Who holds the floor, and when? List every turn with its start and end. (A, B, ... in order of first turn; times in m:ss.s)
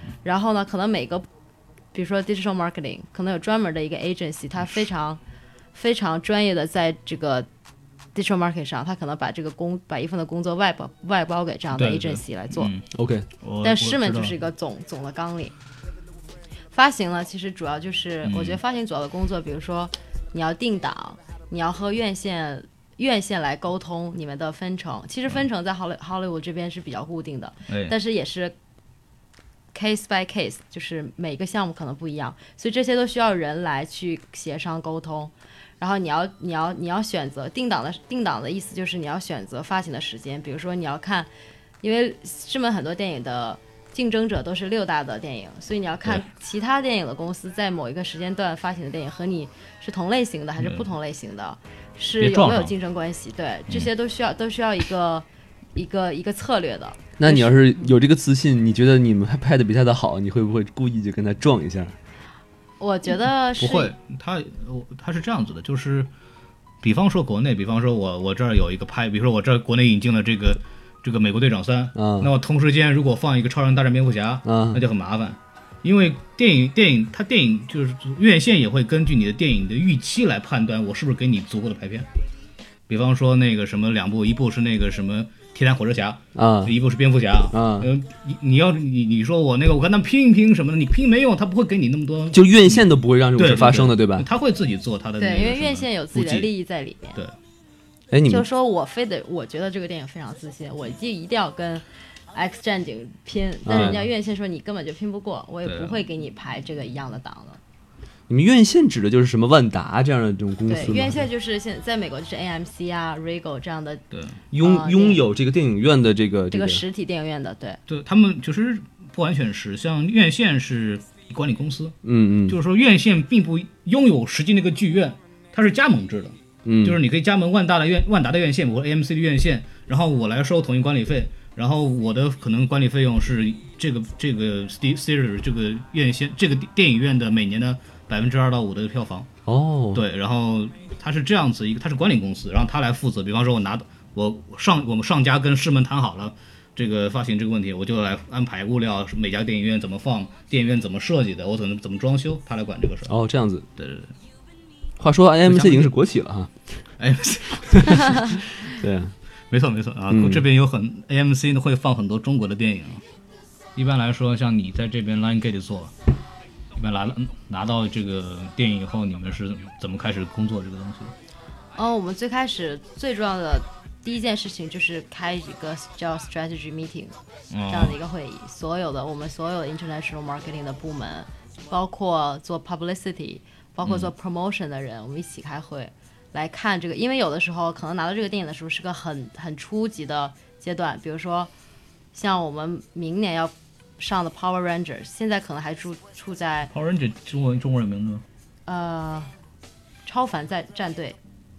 0:00.2-0:01.3 A
0:01.9-0:05.2 A
0:05.7-0:07.5 A
0:08.2-0:12.7 A
0:11.7-0:12.8 B
0:12.9-0:13.3 C
0:13.4-0:14.4 B
0:13.6-0:15.5 A
0:16.7-0:28.5 A
0:18.2-0:18.6 B
0:27.7-0:28.0 B
0:29.7-0:41.3 A
0:41.8-0:57.8 A
0:52.2-0:52.7 B
0:57.2-1:02.0 C
1:02.8-1:03.9 A
1:03.6-1:06.1 B
1:06.8-1:22.1 B
1:12.0-1:12.3 C
1:14.5-1:14.8 C
1:22.9-1:36.5 B
1:26.4-1:26.8 C
1:27.5-1:27.9 C
1:32.3-1:34.3 C
1:35.2-1:37.2 A
1:38.1-1:38.4 C
1:38.3-1:47.6 A
1:43.7-1:44.0 C
1:45.7-1:46.0 B
1:48.3-1:51.3 C
1:50.7-1:54.0 A
1:54.1-1:54.4 B
1:54.5-1:56.8 C
1:54.6-1:55.2 A
1:56.5-1:57.8 A
1:57.9-2:19.3 B
2:02.0-2:02.6 C
2:06.7-2:07.0 C
2:19.5-2:20.0 C
2:19.9-2:33.2 B
2:33.1-2:33.7 C
2:33.8-2:34.1 B
2:35.0-2:36.5 C
2:35.5-2:35.9 B
2:37.0-2:38.5 B
2:37.7-2:38.0 C
2:38.8-2:39.1 C
2:39.5-2:43.0 B
2:40.1-2:40.4 C
2:43.8-2:45.9 B
2:46.8-2:51.1 B
2:51.8-2:57.2 A
2:57.5-2:58.0 B
2:57.7-3:11.5 A
3:03.8-3:04.1 B
3:12.1-3:16.7 A
3:16.7-3:18.2 B
3:18.7-3:19.3 A
3:20.0-3:21.2 A